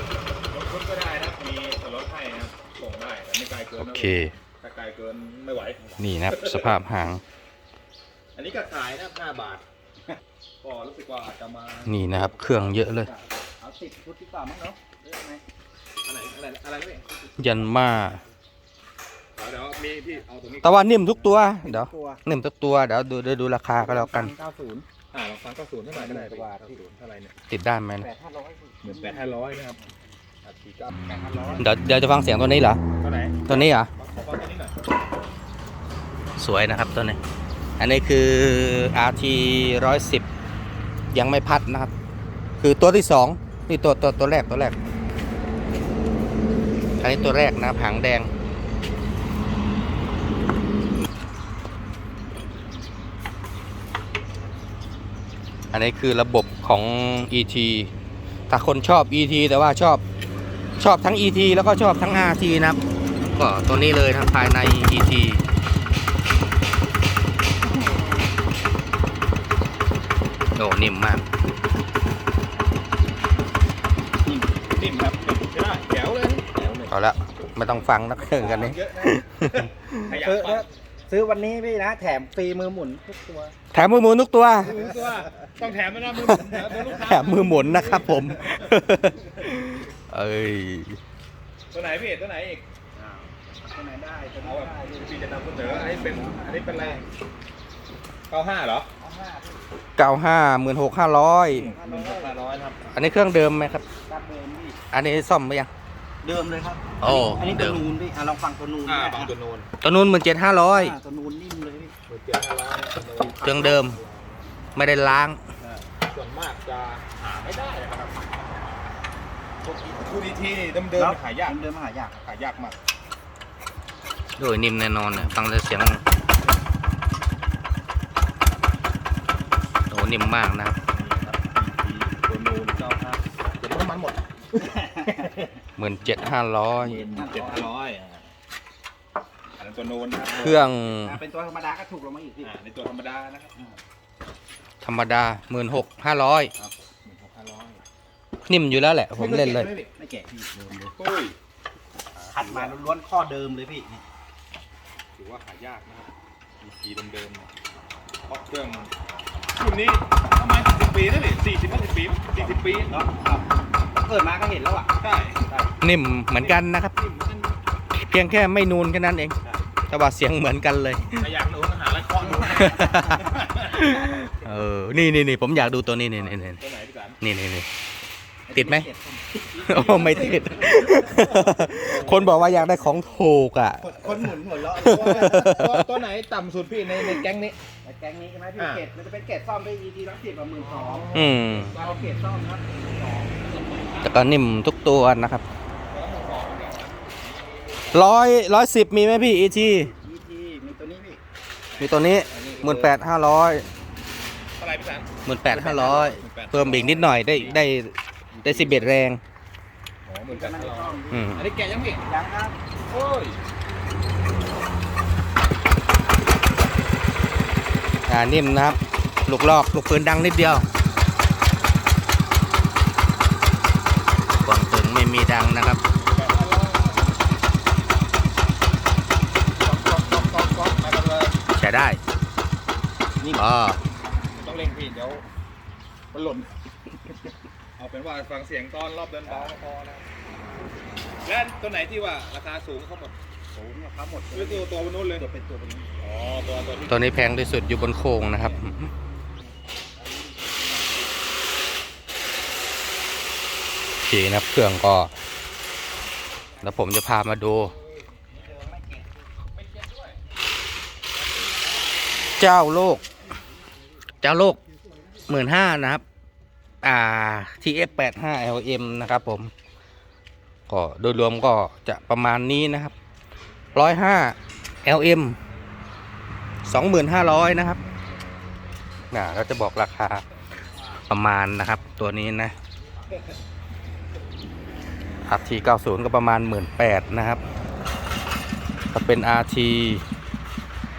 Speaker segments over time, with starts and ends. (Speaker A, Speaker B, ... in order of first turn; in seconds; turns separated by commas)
Speaker A: 0.5-6.8, Speaker B: 3.8-4.3, Speaker B: 6.0-7.2, Speaker A: 8.3-9.6, Speaker A: 10.6-12.3, Speaker B: 11.8-13.1, Speaker C: 12.7-15.4, Speaker A: 16.0-17.0, Speaker B: 17.4-18.2, Speaker A: 19.4-20.8, Speaker B: 20.6-24.3, Speaker C: 21.6-22.2, Speaker C: 23.8-24.8, Speaker A: 25.1-27.3, Speaker C: 25.9-26.8, Speaker B: 27.5-28.1, Speaker C: 28.0-29.3, Speaker A: 28.8-29.8, Speaker A: 30.4-31.0, Speaker C: 31.0-31.7, Speaker B: 31.6-32.8, Speaker A: 33.0-34.7, Speaker B: 33.5-33.9, Speaker B: 36.4-37.2, Speaker B: 37.8-40.2, Speaker B: 41.1-41.9, Speaker B: 42.6-44.8, Speaker B: 47.0-48.3, Speaker B: 55.7-57.9, Speaker B: 58.5-60.0, Speaker B: 60.8-65.4, Speaker B: 70.5-71.2, Speaker A: 74.8-76.9, Speaker B: 76.9-80.2, Speaker A: 78.2-80.7, Speaker C: 80.1-83.6, Speaker B: 83.7-84.8, Speaker A: 84.6-88.6, Speaker B: 86.2-91.0, Speaker A: 91.7-92.7, Speaker C: 93.0-97.0, Speaker A: 94.4-97.0, Speaker A: 98.3-98.9, Speaker C: 99.0-99.7, Speaker B: 100.0-101.7, Speaker A: 101.5-102.8, Speaker C: 101.6-102.6, Speaker B: 102.9-103.8, Speaker C: 104.0-104.8, Speaker B: 104.9-105.7, Speaker C: 106.2-109.3, Speaker B: 107.0-107.8, Speaker A: 108.9-109.7, Speaker B: 109.8-111.0, Speaker C: 110.7-111.9, Speaker A: 112.1-114.3, Speaker C: 113.1-114.0, Speaker B: 113.4-114.0, Speaker B: 114.8-115.4, Speaker A: 116.0-118.3, Speaker C: 119.7-120.0, Speaker A: 120.0-121.6, Speaker C: 120.9-122.2, Speaker A: 122.2-122.8, Speaker B: 124.4-126.0, Speaker B: 129.9-130.8, Speaker A: 130.9-134.2, Speaker C: 134.6-135.4, Speaker A: 135.0-135.3, Speaker B: 135.8-137.1, Speaker A: 136.8-138.3, Speaker C: 137.1-137.7, Speaker A: 139.6-140.6, Speaker C: 140.2-142.6, Speaker B: 140.4-141.2, Speaker A: 142.4-143.5, Speaker B: 144.8-146.5, Speaker A: 147.1-147.8, Speaker B: 148.4-149.7, Speaker A: 149.1-149.9, Speaker C: 149.9-150.9, Speaker A: 151.0-151.3, Speaker A: 152.2-152.8, Speaker C: 152.3-154.0, Speaker A: 155.2-157.5, Speaker A: 158.3-158.9, Speaker A: 159.6-162.9, Speaker C: 162.9-164.9, Speaker A: 165.0-165.6, Speaker B: 165.8-166.9, Speaker A: 166.3-167.6, Speaker B: 167.9-169.4, Speaker B: 169.9-171.3, Speaker A: 171.2-173.8, Speaker C: 172.2-174.6, Speaker B: 172.5-176.6, Speaker A: 176.2-177.2, Speaker B: 177.2-177.7, Speaker C: 178.5-181.4, Speaker B: 178.5-178.9, Speaker B: 179.6-185.8, Speaker A: 181.8-182.6, Speaker C: 182.1-182.4, Speaker C: 183.8-185.5, Speaker A: 184.8-187.6, Speaker C: 187.8-191.2, Speaker A: 188.6-188.8, Speaker A: 190.6-192.1, Speaker B: 191.1-191.8, Speaker C: 191.7-193.4, Speaker A: 193.4-194.2, Speaker B: 194.0-195.4, Speaker A: 195.9-198.1, Speaker B: 197.9-199.9, Speaker C: 199.9-201.2, Speaker A: 201.7-202.9, Speaker B: 201.8-203.7, Speaker C: 202.4-202.7, Speaker A: 204.6-207.7, Speaker B: 205.2-209.2, Speaker A: 208.4-208.9, Speaker A: 210.1-212.0, Speaker C: 210.3-211.4, Speaker B: 211.1-211.5, Speaker C: 212.0-212.6, Speaker A: 212.9-213.4, Speaker B: 218.1-220.7, Speaker B: 224.4-225.8, Speaker A: 226.0-227.2, Speaker A: 229.6-231.4, Speaker B: 231.6-232.0, Speaker C: 233.2-233.5, Speaker B: 233.3-233.8, Speaker A: 234.3-235.2, Speaker A: 236.1-236.6, Speaker A: 237.8-240.0, Speaker C: 239.3-239.6, Speaker A: 241.2-243.1, Speaker C: 243.5-245.9, Speaker A: 244.3-245.3, Speaker A: 246.0-247.2, Speaker B: 246.9-248.9, Speaker C: 250.0-251.0, Speaker B: 254.1-255.1, Speaker B: 256.6-257.7, Speaker C: 258.4-259.1, Speaker B: 262.4-263.0, Speaker B: 264.2-264.6, Speaker B: 265.3-266.0, Speaker B: 266.8-269.5, Speaker B: 270.7-272.9, Speaker B: 273.8-275.4, Speaker B: 276.6-277.8, Speaker B: 279.1-280.2, Speaker B: 281.0-282.6, Speaker B: 285.2-287.4, Speaker B: 288.9-290.0